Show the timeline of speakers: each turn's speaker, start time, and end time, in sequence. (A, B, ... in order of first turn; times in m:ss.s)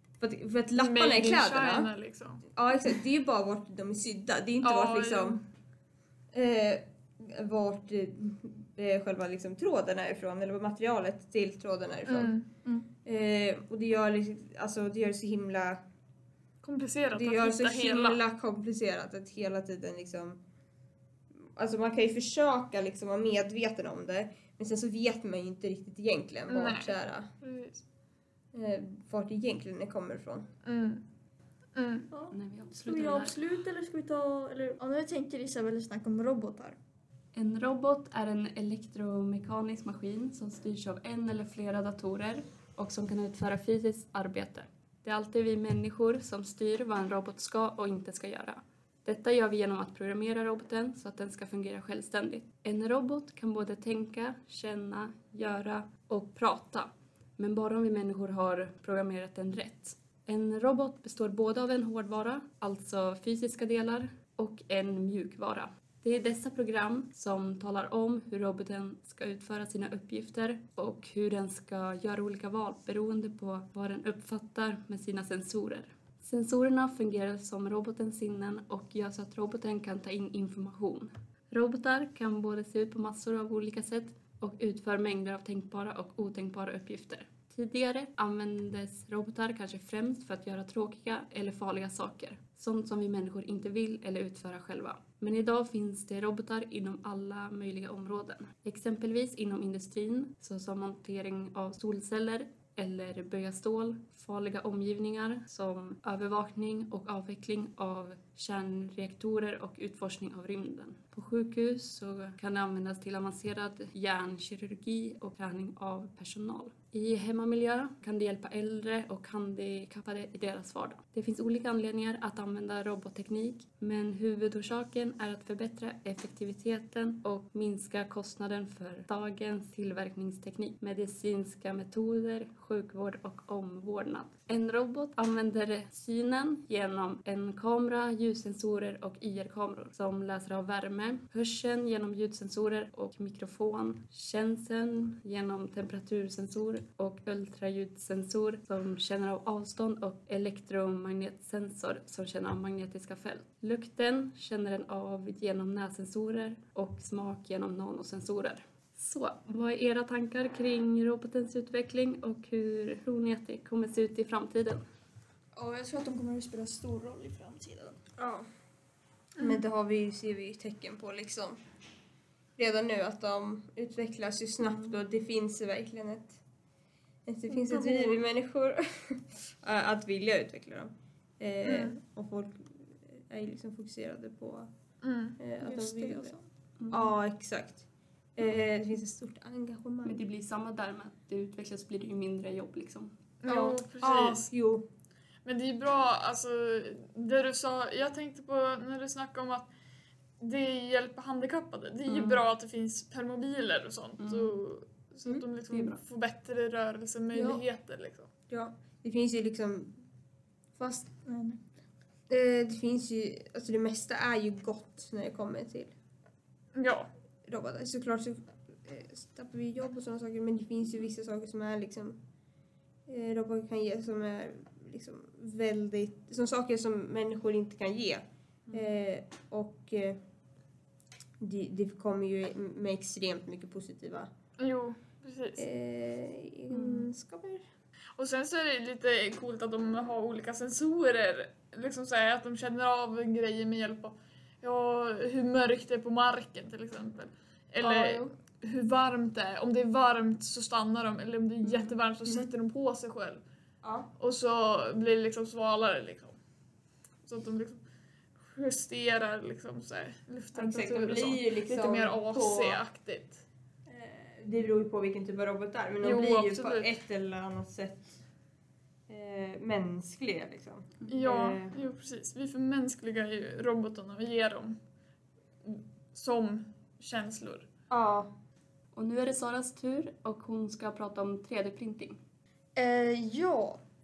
0:00.2-0:01.9 A
0:00.8-0:02.4 B
0:02.5-0:05.4 A
0:04.6-0:05.4 B
0:06.3-0:12.3 A
0:12.1-0:12.5 B
0:13.0-0:15.8 A
0:16.6-0:18.2 B
0:17.1-0:20.4 A
0:21.4-0:27.3 A
0:26.5-0:27.8 B
0:28.5-0:30.5 A
0:30.6-0:31.0 B
0:31.8-0:32.1 B
0:32.1-0:36.8 C
0:32.3-0:33.4 D
0:37.4-2:44.8 D
2:45.6-2:48.0 C
2:48.2-2:48.5 A
2:49.4-2:51.6 A
2:52.6-2:56.4 A
2:57.2-3:04.7 A
2:57.5-2:58.0 C
3:01.6-3:02.0 B
3:05.0-3:05.4 B
3:05.4-3:06.4 A
3:05.6-3:06.4 C
3:06.8-3:07.1 D
3:06.9-3:07.8 A
3:08.4-3:10.2 A
3:10.0-3:13.1 D
3:13.4-3:14.5 B
3:13.5-3:14.9 A
3:15.4-3:19.7 B
3:20.4-3:28.3 B
3:22.1-3:22.4 D
3:24.2-3:24.6 D
3:25.7-3:26.0 D
3:27.4-3:27.6 A
3:28.5-3:30.0 A
3:30.8-3:31.6 C
3:32.3-3:35.9 A
3:36.8-3:37.1 B
3:37.5-3:42.2 A
3:43.1-3:50.2 A
3:51.4-3:54.3 A
3:54.6-3:55.6 B
3:55.6-3:57.7 A
3:56.7-3:57.1 D
3:58.2-4:13.4 B
4:07.8-4:08.3 A
4:11.6-4:11.9 D
4:13.8-4:14.1 A
4:14.2-4:16.4 B
4:17.2-4:17.8 B
4:18.4-4:23.4 B
4:20.6-4:22.8 A
4:23.9-4:28.2 A
4:26.0-4:26.9 B
4:29.1-4:31.8 A
4:31.1-4:34.8 B
4:35.6-4:37.7 B
4:37.9-4:38.3 A
4:38.9-4:42.2 D
4:42.8-4:43.8 C